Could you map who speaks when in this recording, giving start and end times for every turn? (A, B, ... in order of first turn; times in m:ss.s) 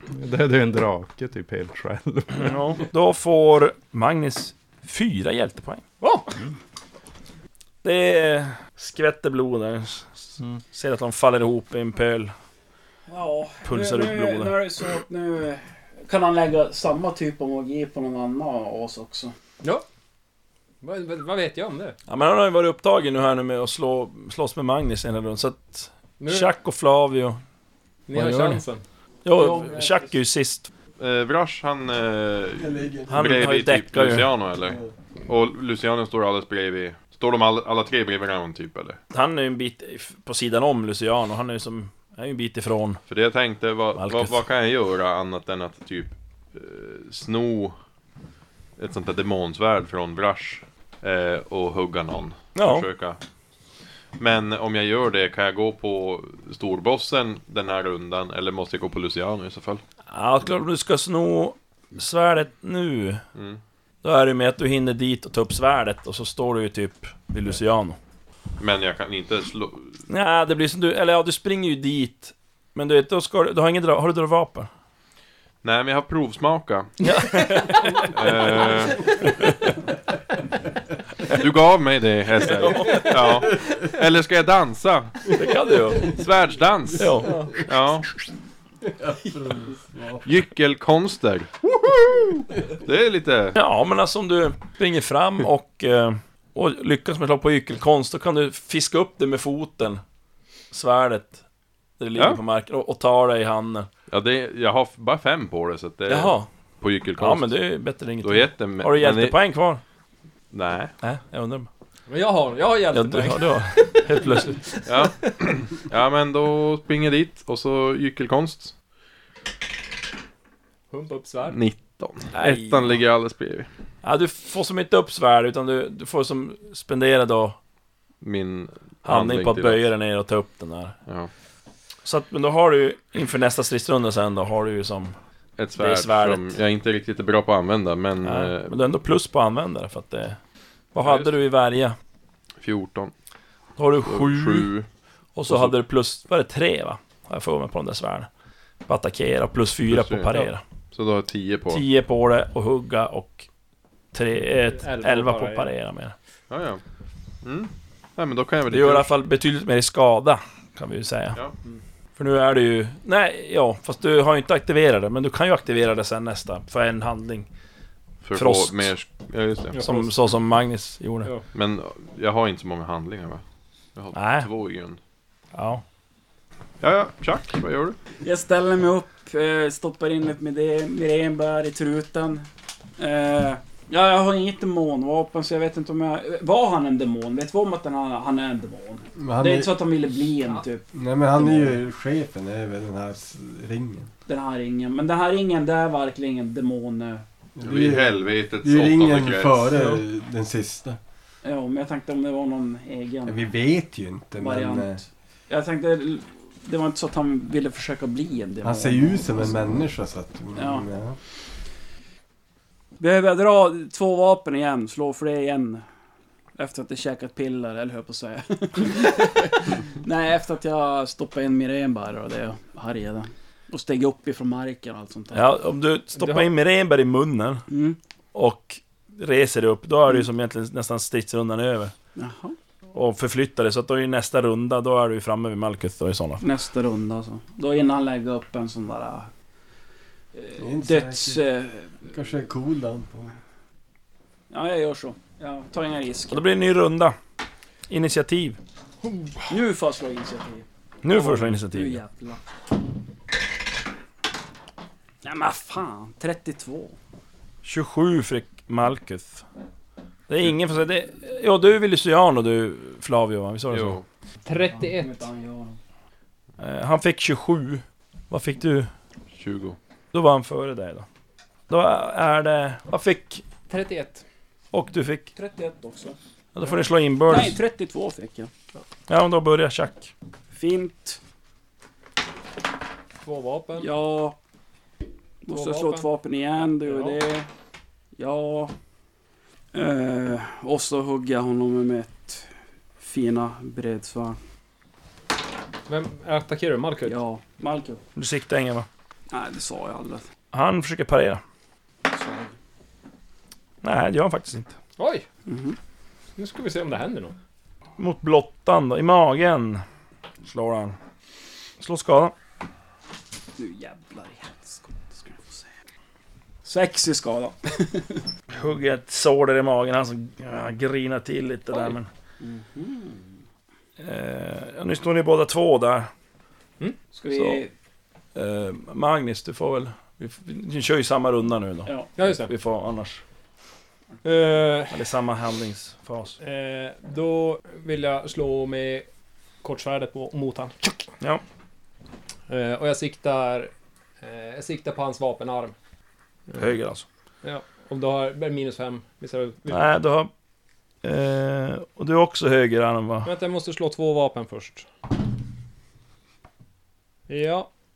0:00.1-0:02.6 A
0:02.3-0:05.8 B
0:06.0-0:06.3 C
0:07.8-0:12.3 B
0:13.1-0:19.3 D
0:13.6-0:14.6 B
0:20.8-0:22.0 C
0:22.1-0:27.4 B
0:26.2-0:26.5 C
0:28.1-0:28.8 C
0:28.1-0:28.6 A
0:29.2-0:30.7 B
0:29.3-0:30.1 D
0:31.0-0:39.0 E
0:32.6-0:33.2 F
0:33.1-0:34.3 B
0:34.6-0:34.9 F
0:39.1-0:43.0 B
0:43.1-0:47.8 E
0:44.0-0:44.4 B
0:48.8-0:53.2 E
0:52.5-0:52.8 B
0:54.2-0:59.8 E
1:00.1-1:03.2 B
1:03.3-1:03.6 E
1:04.0-1:08.0 B
1:08.6-1:10.0 E
1:10.1-1:14.7 B
1:15.6-1:17.0 E
1:17.0-1:18.4 B
1:17.7-1:19.1 E
1:21.3-1:25.3 E
1:22.5-1:23.3 B
1:25.3-1:26.1 B
1:26.0-1:28.1 E
1:27.0-1:27.3 B
1:27.2-1:27.6 C
1:28.9-1:30.3 F
1:30.2-1:31.5 E
1:32.7-1:33.6 E
1:33.5-1:40.0 B
1:40.7-1:41.4 B
1:42.0-1:43.9 B
1:44.1-1:47.6 E
1:46.1-1:46.5 B
1:47.2-1:49.8 B
1:48.2-1:49.4 E
1:50.5-1:50.9 E
1:51.0-1:51.7 B
1:52.1-1:55.3 C
1:52.9-1:54.6 B
1:54.8-1:58.7 E
2:00.9-2:01.6 C
2:01.5-2:03.7 E
2:02.3-2:03.0 B
2:04.0-2:07.6 B
2:08.2-2:09.8 E
2:09.0-2:11.0 B
2:12.0-2:15.2 B
2:15.6-2:18.8 E
2:15.7-2:16.5 B
2:18.2-2:20.4 B
2:20.9-2:22.0 B
2:21.0-2:21.3 E
2:22.6-2:23.1 E
2:23.8-2:24.7 B
2:24.0-2:24.9 E
2:25.3-2:28.3 B
2:25.5-2:25.8 E
2:28.8-2:30.6 B
2:29.9-2:31.8 E
2:31.7-2:33.5 B
2:34.1-2:36.1 B
2:34.7-2:35.7 C
2:36.5-2:36.8 E
2:37.4-2:39.1 E
2:38.7-2:41.4 B
2:42.2-2:47.5 B
2:48.2-2:49.8 E
2:48.3-2:48.9 B
2:49.7-2:50.1 C
2:49.8-2:51.3 B
2:51.5-2:53.4 E
2:54.0-2:55.0 E
2:54.1-2:54.5 B
2:55.5-2:55.8 B
2:56.8-2:58.0 E
2:58.2-3:11.8 D
3:09.2-3:09.8 F
3:10.9-3:14.1 F
3:14.2-3:17.2 D
3:17.6-3:21.0 F
3:17.6-3:19.8 E
3:21.4-3:23.5 D
3:23.2-3:25.0 F
3:24.4-3:29.6 D
3:28.6-3:31.2 F
3:30.6-3:30.9 D
3:33.0-3:35.8 D
3:36.6-3:45.5 D
3:45.3-3:47.6 B
3:46.1-3:46.5 C
3:47.7-3:48.0 D
3:48.3-3:51.9 B
3:52.2-3:52.6 D
3:52.9-3:56.4 B
3:56.4-3:59.3 D
4:00.4-4:02.0 D
4:00.6-4:01.4 F
4:02.0-4:03.3 F
4:04.5-4:06.4 D
4:06.3-4:07.2 B
4:07.9-4:08.6 B
4:09.5-4:12.4 D
4:11.0-4:12.0 B
4:15.2-4:16.9 D
4:17.6-4:19.4 B
4:20.3-4:24.0 B
4:23.7-4:24.0 E
4:24.4-4:25.2 C
4:24.7-4:25.8 D
4:26.6-4:28.9 B
4:29.3-4:29.8 E
4:30.1-4:31.0 B
4:31.7-4:33.4 B
4:33.7-4:34.2 C
4:34.7-4:35.3 B
4:35.3-4:36.2 D
4:36.5-4:37.6 B
4:37.2-4:38.5 D
4:39.1-4:40.1 B
4:40.5-4:41.2 D
4:43.2-4:43.9 C
4:43.8-4:44.4 D
4:45.4-4:47.5 D
4:45.5-4:46.1 C
4:46.8-4:47.2 C
4:48.2-4:48.7 D
4:49.7-4:52.5 D
4:53.0-4:54.4 D
4:55.9-4:57.2 C
4:57.0-4:58.0 D
4:58.2-4:58.9 B
4:59.3-5:00.2 D
5:00.5-5:01.4 B
5:02.1-5:02.5 D
5:03.8-5:04.7 B
5:05.0-5:05.2 C
5:05.5-5:05.8 D
5:06.4-5:07.3 C
5:08.0-5:09.8 B
5:10.4-5:11.0 B
5:11.8-5:12.3 B
5:13.6-5:15.7 D
5:16.6-5:18.2 D
5:18.5-5:22.1 B
5:21.7-5:23.3 D
5:24.0-5:26.1 B
5:27.1-5:27.7 D
5:27.3-5:27.6 B
5:28.3-5:33.2 B
5:31.8-5:32.1 D
5:32.2-5:32.5 C
5:34.2-5:35.0 C
5:34.9-5:36.4 B
5:36.4-5:39.1 C
5:39.6-5:41.1 C
5:42.5-5:45.7 C
5:46.6-5:47.0 B
5:47.4-5:49.8 C
5:49.7-5:50.3 B
5:51.0-5:53.3 B
5:53.2-5:54.9 C
5:57.3-5:57.7 C